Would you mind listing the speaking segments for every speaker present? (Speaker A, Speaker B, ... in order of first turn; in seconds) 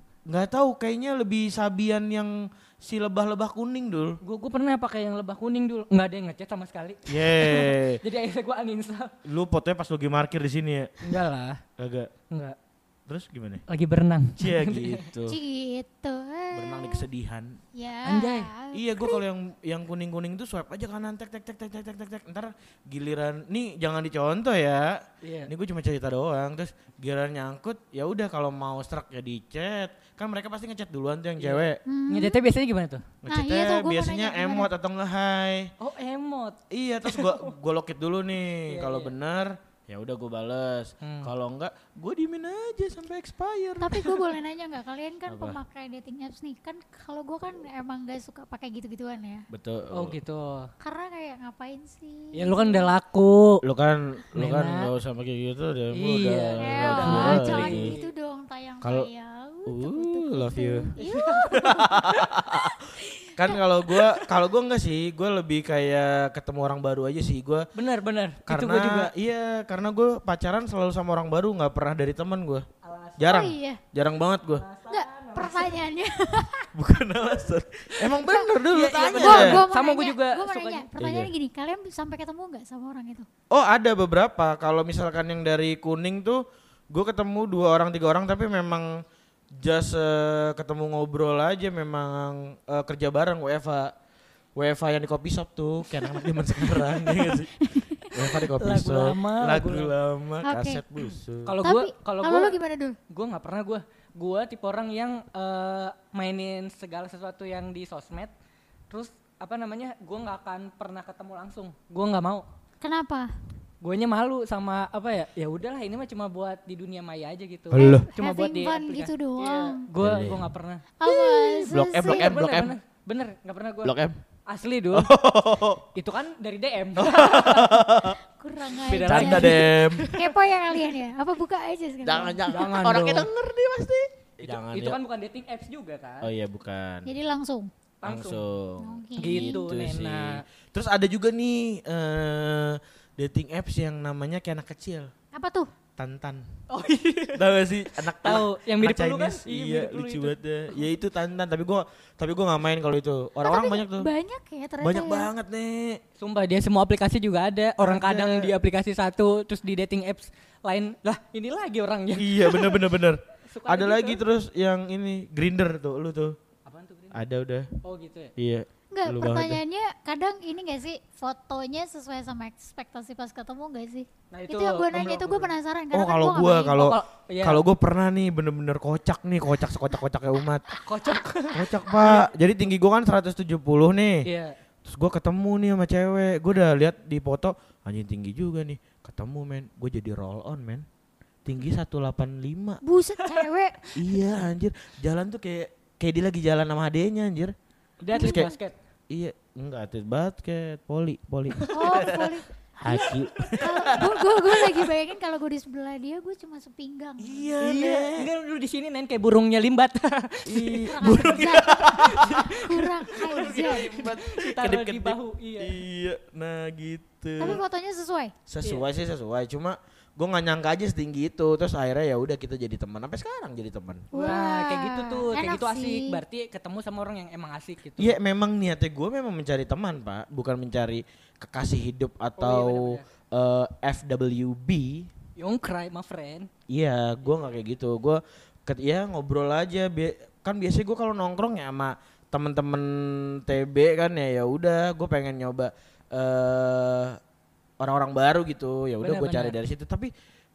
Speaker A: 0.3-4.2, 7.1-8.0, 9.3-11.2, 11.8-12.1, 13.1-13.6, 14.4-15.4, 16.5-17.6, 18.7-31.8, 33.2-35.7, 36.7-44.0, 45.3-45.6, 49.5-50.2, 53.6-58.0, 58.8-59.1, 59.7-60.9, 61.5-62.8, 63.4-67.7, 68.5-72.7, 73.2-74.7, 76.8-79.7, 81.0-81.3, 83.5-89.0, 89.6-93.9, 94.6-101.6, 117.7-118.1, 120.0-120.5, 121.7-122.8, 123.8-124.2, 124.9-125.8, 127.0-128.2, 129.1-130.1, 132.0-135.0, 136.2-137.1, 138.1-145.1, 146.0-146.4, 147.3-154.1, 154.8-156.0, 157.8-158.6, 162.2-166.4, 167.1-167.7, 168.4-169.6, 175.9-180.7, 181.5-184.3, 184.9-190.8, 191.4-192.8, 194.0-197.6, 198.2-198.5, 199.1-204.9, 207.2-208.3, 210.5-217.6, 218.5-224.1, 228.0-235.1, 236.7-247.2, 247.8-250.1
Speaker B: 4.2-9.1, 11.0-11.6, 12.3-12.6, 13.7-15.2, 18.0-18.5, 25.2-25.5, 31.4-33.2, 35.8-37.6, 38.6-39.2, 41.0-41.3, 43.9-44.3, 49.9-50.7, 52.3-53.6, 54.3-54.9, 55.9-58.1, 61.0-62.3, 67.7-69.1, 72.8-73.4, 74.5-75.8, 78.7-80.9, 98.5-100.0, 101.5-108.3, 108.9-112.5, 113.8-125.1, 125.9-127.9, 128.8-131.0, 132.5-133.3, 134.4-136.3, 138.0-138.5, 139.2-140.4, 146.7-150.4, 156.2-162.9, 163.4-164.2, 166.7-167.2, 167.8-168.3, 174.3-175.5, 176.8-177.7, 180.7-182.3, 184.2-184.6, 193.2-194.0, 198.0-198.8, 201.5-202.0, 207.5-215.8, 224.1-228.2, 232.4-233.1, 235.4-236.5, 249.0-249.6
Speaker C: 15.3-17.1, 17.8-19.2, 31.9-32.4, 33.3-34.7, 43.8-49.5, 50.8-52.9, 56.6-62.1, 62.6-63.7, 73.3-73.8, 74.9-76.7, 78.0-78.5, 79.2-83.3, 96.0-98.4, 100.4-103.0, 112.8-113.3, 117.7-119.9, 121.0-122.4, 128.0-129.6, 130.1-132.9, 137.1-137.7, 138.8-139.6, 145.3-145.7, 153.4-155.3, 168.9-176.8, 192.8-193.9, 198.1-198.6, 201.7-207.5, 210.9-211.8, 212.5-213.9, 217.4-218.3, 224.1-226.2